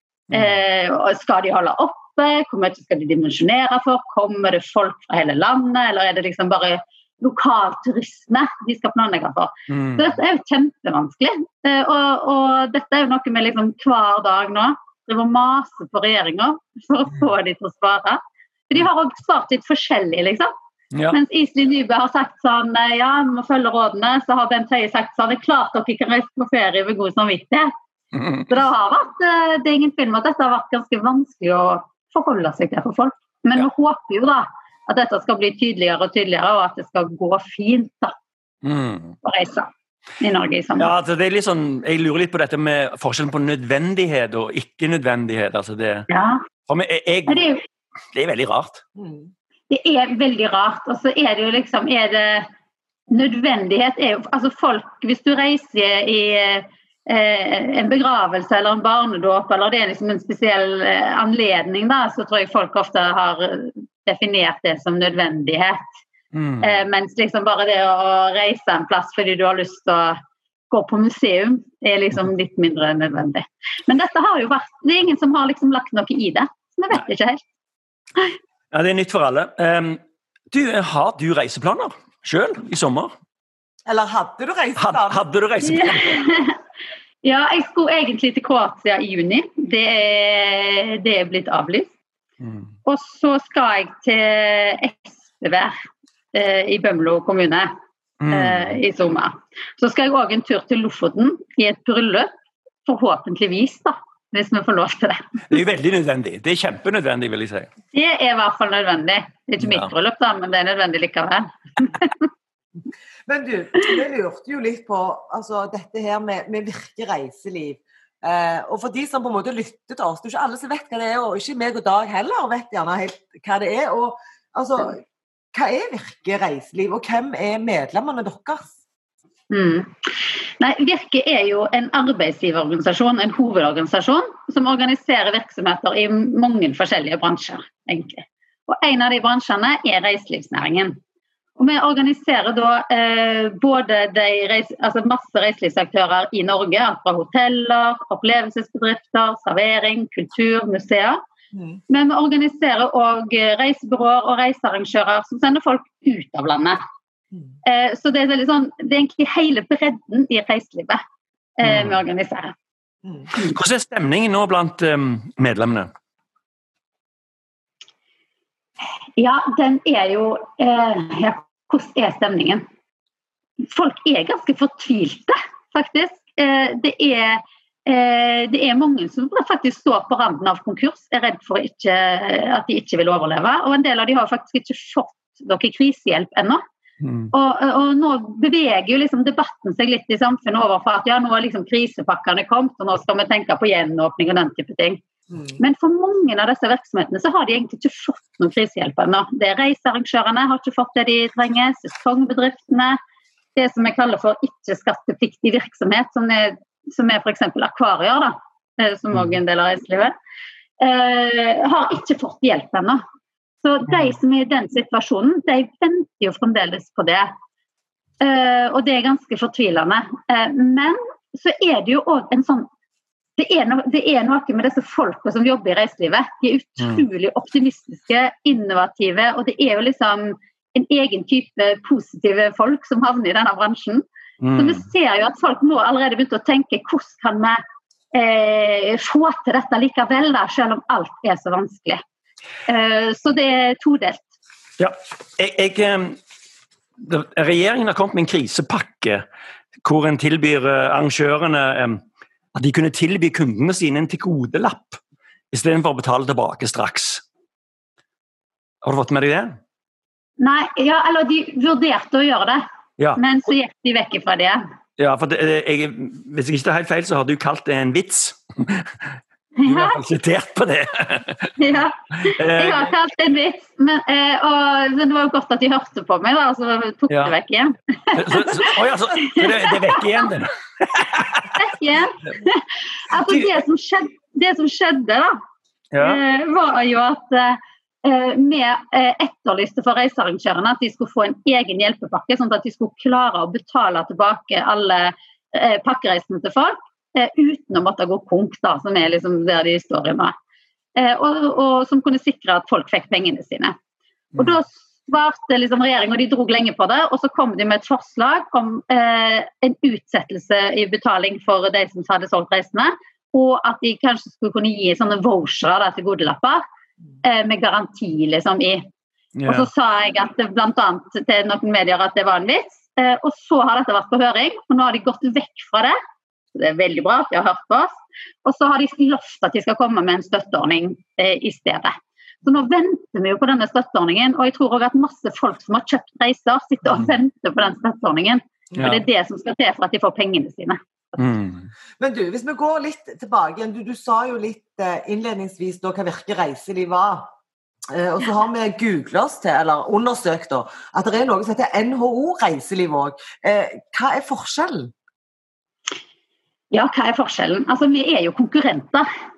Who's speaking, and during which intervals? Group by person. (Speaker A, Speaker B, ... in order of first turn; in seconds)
Speaker A: 0.3-0.6, 9.7-10.2, 20.9-21.2, 28.1-28.5, 38.6-39.2, 40.8-46.1, 46.7-47.4, 48.1-48.8, 66.3-66.8, 78.7-80.0, 80.5-83.1, 84.8-86.2, 92.4-92.7, 98.2-98.8, 105.5-107.7, 109.6-109.9, 161.6-162.0, 163.3-165.9, 187.0-187.3, 213.9-214.2, 226.8-227.0, 234.4-234.8, 244.8-246.2, 247.0-249.2, 249.8-252.0, 252.5-255.0, 255.5-257.2, 258.8-259.6, 265.0-271.6, 272.2-272.9, 277.1-277.4, 278.1-281.6, 285.9-286.2, 319.4-319.7, 336.8-337.1, 338.8-339.0, 341.2-341.7
Speaker B: 0.3-20.5, 21.1-27.7, 28.5-38.1, 39.2-40.9, 46.1-46.4, 47.3-47.6, 49.7-52.5, 53.1-65.8, 66.6-70.2, 70.7-77.4, 85.6-86.5, 87.2-91.9, 92.8-95.8, 96.3-97.7, 98.3-102.3, 102.8-105.6, 107.9-112.2, 129.5-141.0, 141.6-151.2, 151.9-156.8, 157.6-161.0, 161.6-162.5, 169.2-172.6, 173.6-186.6, 187.3-195.0, 195.6-203.0, 203.6-210.1, 210.8-213.0, 213.6-217.3, 218.2-222.7, 223.4-234.0, 234.6-237.6, 238.1-242.0, 242.7-244.3, 260.4-262.6, 263.2-264.6, 269.6-270.0, 271.6-280.2, 281.5-285.4, 286.0-300.3, 300.9-303.7, 304.4-316.6, 317.2-318.9, 319.5-325.9, 326.5-340.8, 356.7-359.1
Speaker C: 48.9-49.3, 83.8-85.2, 113.2-125.0, 125.5-128.8, 151.5-151.8, 342.0-347.3, 347.9-354.9